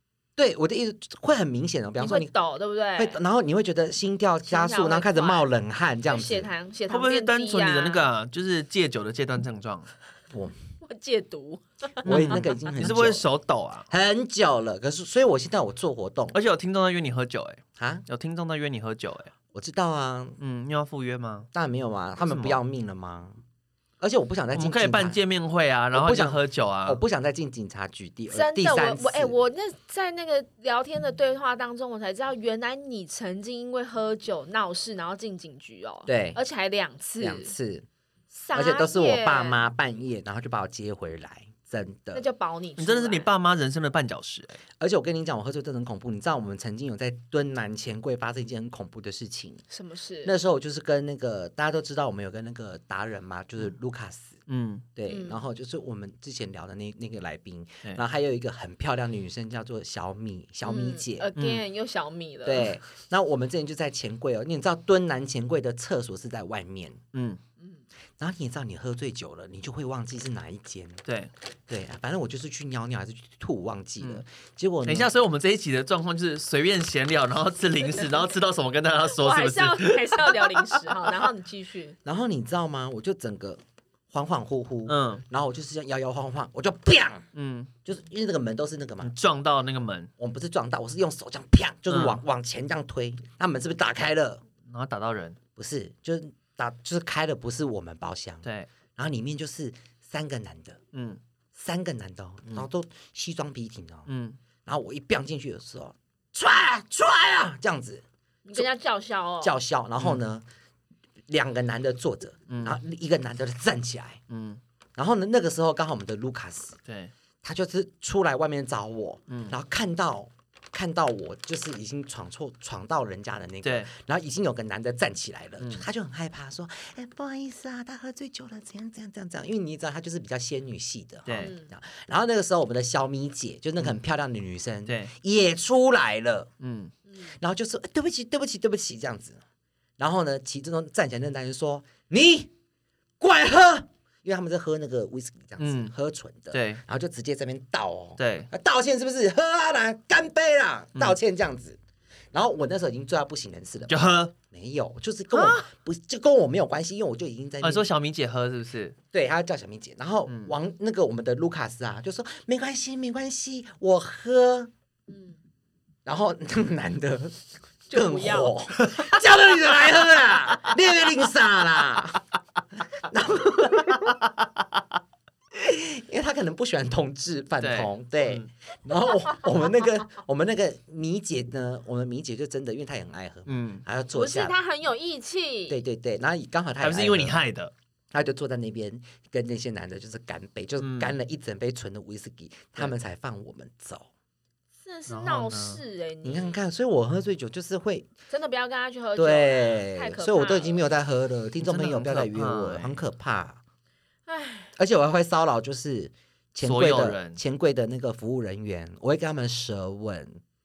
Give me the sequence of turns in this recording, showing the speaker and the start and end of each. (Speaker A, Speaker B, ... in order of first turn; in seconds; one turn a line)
Speaker A: 0.4-2.3
Speaker B: 2.0-3.2
Speaker A: 2.9-6.5
Speaker B: 4.4-5.4
Speaker B: 6.1-8.0
Speaker C: 6.9-9.9
Speaker B: 10.8-12.4
Speaker A: 12.0-13.2
Speaker C: 12.0-13.9
Speaker A: 13.9-16.4
Speaker C: 16.3-19.3
Speaker A: 17.8-18.0
Speaker A: 19.5-20.4
Speaker C: 20.4-21.5
Speaker A: 21.5-23.4
Speaker C: 22.2-22.6
Speaker A: 24.0-25.2
Speaker C: 24.5-27.0
Speaker A: 25.9-29.3
Speaker B: 28.3-37.5
Speaker A: 36.0-36.4
Speaker A: 37.2-37.9
Speaker B: 38.3-39.6
Speaker A: 38.5-42.2
Speaker B: 42.1-43.3
Speaker C: 42.8-44.6
Speaker A: 44.8-49.6
Speaker B: 49.7-50.3
Speaker A: 50.2-54.4
Speaker C: 54.5-54.9
Speaker A: 54.9-61.3
Speaker B: 55.1-55.4
Speaker B: 60.6-62.7
Speaker C: 61.4-61.6
Speaker A: 62.4-67.0
Speaker C: 67.1-67.4
Speaker A: 68.2-71.0
Speaker C: 71.0-71.3
Speaker A: 71.7-75.1
Speaker C: 74.8-80.9
Speaker B: 79.1-82.0
Speaker A: 82.0-87.3
Speaker C: 84.9-85.2
Speaker C: 87.3-87.7
Speaker A: 87.8-89.1
Speaker C: 89.0-90.1
Speaker A: 90.2-94.4
Speaker C: 91.9-92.2
Speaker C: 94.7-95.4
Speaker A: 95.5-100.8
Speaker C: 100.9-101.2
Speaker A: 101.5-104.1
Speaker C: 104.1-104.4
Speaker A: 104.7-108.0
Speaker B: 108.5-109.6
Speaker A: 109.4-110.4
Speaker A: 111.3-114.2
Speaker C: 112.5-112.8
Speaker C: 114.3-114.6
Speaker A: 115.0-116.8
Speaker C: 116.8-117.1
Speaker A: 117.4-136.5
Speaker C: 119.3-119.5
Speaker C: 123.6-123.9
Speaker C: 125.6-125.9
Speaker C: 131.2-131.5
Speaker B: 131.4-131.7
Speaker C: 134.8-135.1
Speaker C: 136.6-136.9
Speaker B: 137.1-137.3
Speaker A: 137.3-139.4
Speaker A: 140.0-142.5
Speaker A: 143.2-151.8
Speaker C: 145.6-145.9
Speaker C: 146.5-146.8
Speaker C: 148.2-148.5
Speaker A: 152.3-153.9
Speaker C: 153.9-154.3
Speaker A: 154.5-157.9
Speaker C: 155.3-155.6
Speaker C: 157.6-158.9
Speaker A: 159.1-164.7
Speaker C: 160.3-160.5
Speaker B: 165.1-165.4
Speaker A: 166.0-172.2
Speaker B: 167.9-168.5
Speaker C: 168.8-169.2
Speaker A: 173.0-174.3
Speaker A: 175.5-184.6
Speaker C: 177.6-178.5
Speaker C: 183.5-183.8
Speaker B: 184.1-185.8
Speaker A: 185.7-187.4
Speaker C: 186.8-187.7
Speaker A: 188.1-194.1
Speaker C: 190.8-191.1
Speaker B: 194.8-196.6
Speaker C: 195.1-195.8
Speaker A: 196.2-198.1
Speaker B: 198.3-200.8
Speaker A: 199.1-203.6
Speaker C: 201.6-203.0
Speaker B: 204.3-204.7
Speaker A: 204.8-210.4
Speaker C: 206.6-207.4